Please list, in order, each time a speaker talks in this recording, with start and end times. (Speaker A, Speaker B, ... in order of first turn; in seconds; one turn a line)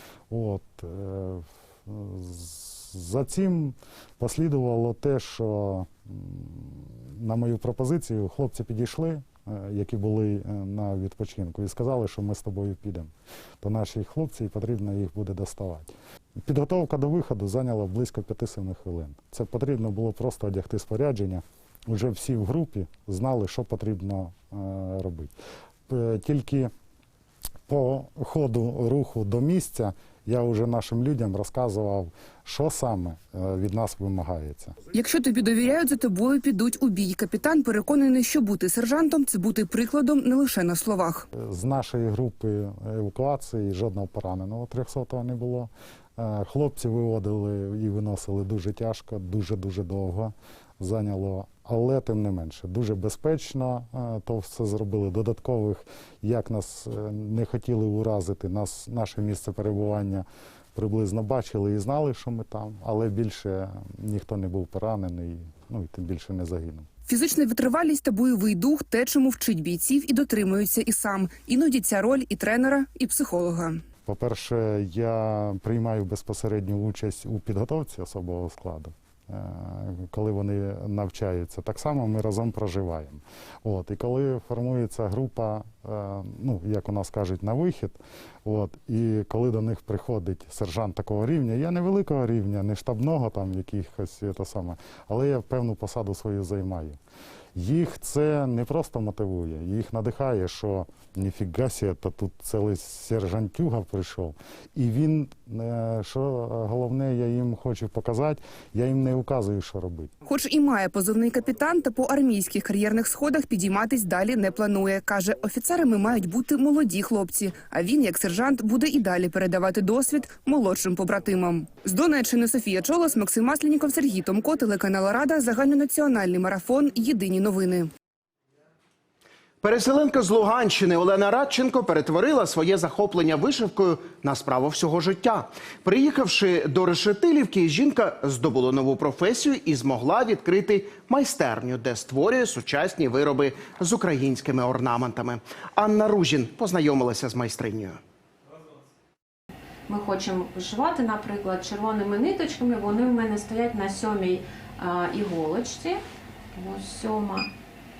Speaker A: 0.3-25.3
Speaker A: 25.9-26.7
Speaker A: 27.7-34.8
Speaker B: 34.9-41.2
Speaker A: 41.3-66.9
Speaker B: 67.1-73.8
Speaker A: 74.0-97.0
Speaker A: 97.5-110.1
Speaker B: 110.2-127.9
Speaker C: 129.6-148.0
Speaker D: 149.9-156.0
Speaker D: 156.5-157.5